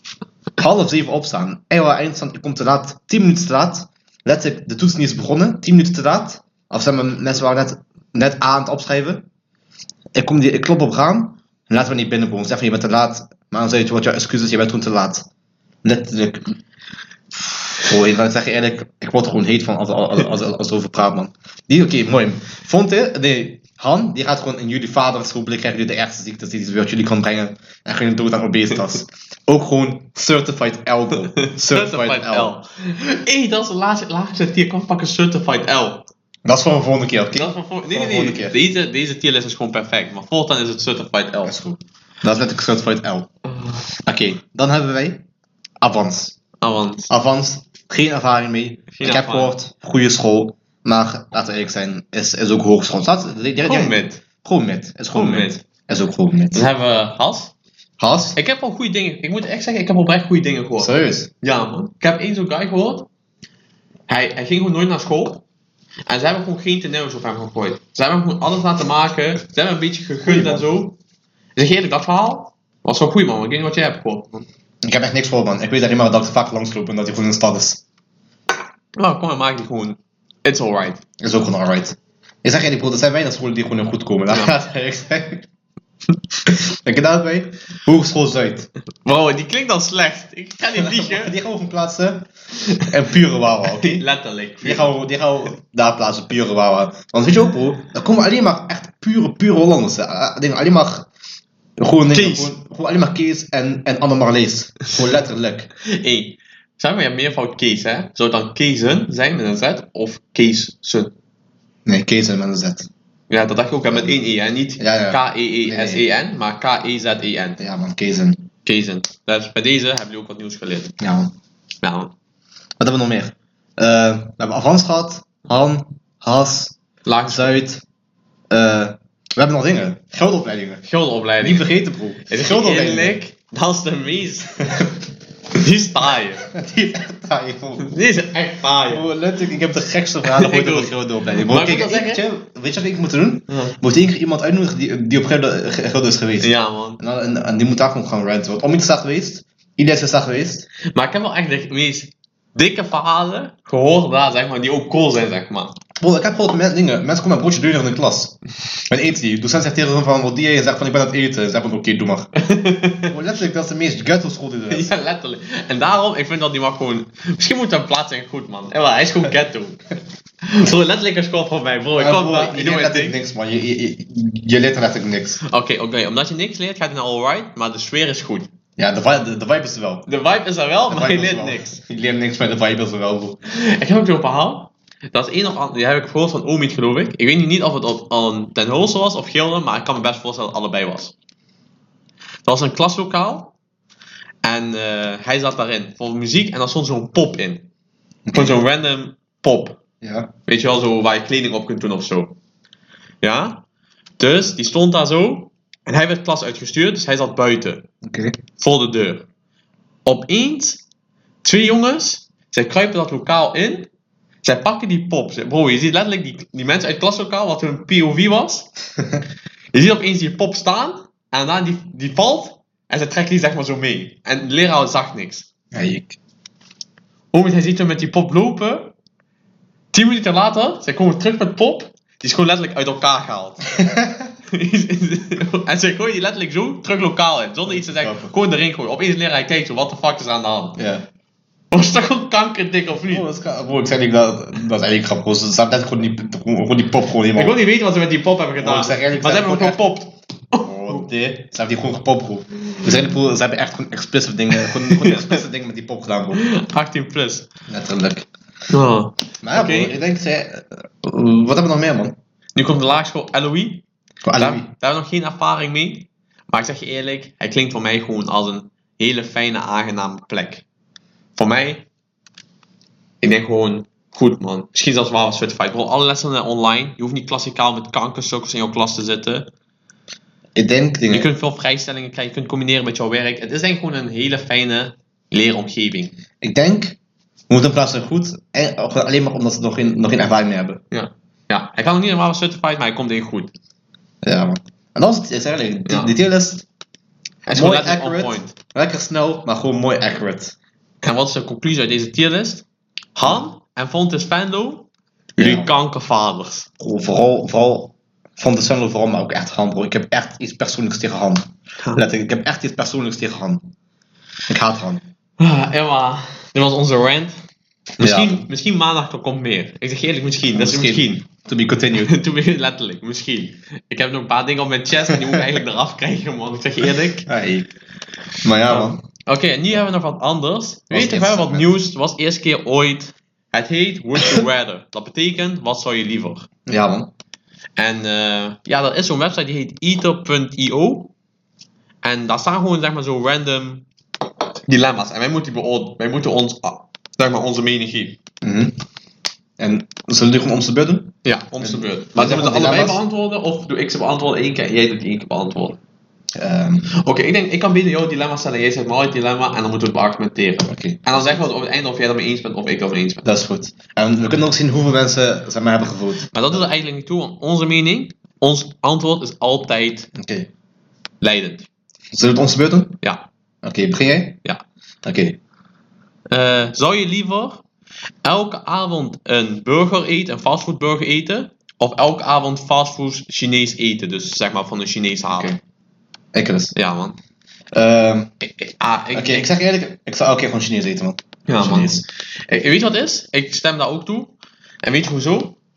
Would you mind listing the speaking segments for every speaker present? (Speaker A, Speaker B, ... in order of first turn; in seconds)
Speaker A: 0.6-9.2, 10.1-15.3, 15.8-16.6, 17.8-32.5, 36.5-38.6, 41.4-43.3, 44.0-45.2, 45.8-46.4, 47.1-56.6, 58.0-58.4, 60.8-61.3, 70.2-70.7, 74.8-77.8, 81.2-85.5, 86.5-88.7, 90.7-92.3, 92.8-94.0, 94.6-101.1, 101.8-105.7, 111.9-112.9, 114.8-116.0, 117.6-118.5, 121.0-121.3, 122.8-127.8, 128.5-130.8, 131.4-133.2, 134.6-134.9, 136.5-137.9, 138.9-150.7, 156.0-158.4, 158.9-162.3, 163.0-164.9, 172.0-175.4, 178.8-180.1, 180.9-183.4, 198.2-198.6, 200.0-200.3, 208.0-208.4, 225.7-226.2, 233.8-234.2, 237.7-238.3, 240.8-241.0, 243.1-247.6, 248.6-249.8, 250.6-256.4, 257.7-258.3, 259.4-262.1, 264.2-264.7, 280.6-281.3, 286.4-287.0, 287.5-290.8, 294.2-296.6, 297.5-300.5, 305.4-305.7, 306.8-313.6, 314.5-315.0, 318.0-318.4, 320.5-322.1, 325.1-325.4, 327.2-327.7, 328.4-329.0, 330.9-331.7, 336.6-337.1, 348.4-348.7, 349.6-353.0, 356.3-356.9, 360.6-361.4, 363.2-366.6, 370.1-370.5, 372.1-373.0, 373.6-374.4, 375.0-375.4, 385.3-385.6, 386.3-386.8, 387.7-388.3, 389.1-392.1
Speaker B: 31.4-36.1, 37.3-41.5, 43.5-43.8, 46.6-47.1, 48.9-49.5, 53.6-54.2, 55.1-55.5, 56.5-57.5, 58.4-63.1, 64.1-65.4, 66.1-71.0, 71.5-74.5, 79.0-81.0, 89.0-91.3, 93.7-94.9, 102.1-102.5, 105.8-111.1, 113.3-117.6, 118.6-120.9, 121.8-122.1, 127.0-127.6, 130.8-131.7, 132.3-134.6, 135.5-136.5, 137.8-139.0, 140.2-142.2, 143.5-143.8, 146.4-147.0, 150.9-155.8, 162.4-163.1, 164.7-169.8, 170.4-173.2, 175.4-178.5, 180.1-181.8, 183.4-191.1, 192.4-193.5, 194.4-197.7, 198.3-199.8, 200.5-202.4, 203.2-203.6, 204.2-207.8, 208.6-209.2, 210.0-210.8, 211.4-213.9, 214.4-218.7, 219.7-225.5, 227.3-228.9, 229.9-233.6, 234.5-240.8, 241.7-243.2, 247.3-251.1, 254.6-255.4, 256.4-257.5, 258.7-259.9, 262.6-263.8, 264.4-270.6, 271.4-271.9, 273.2-279.5, 281.1-286.1, 290.9-293.5, 295.9-296.1, 297.4-298.5, 301.0-306.7, 315.4-317.4, 318.0-321.3, 321.9-327.3, 328.7-336.5, 337.8-341.1, 342.0-343.8, 344.7-348.2, 351.2-355.8, 356.9-363.2, 366.3-370.1, 371.2-371.7, 376.3-377.6, 378.2-385.5, 386.8-387.2, 388.4-389.5, 391.5-395.6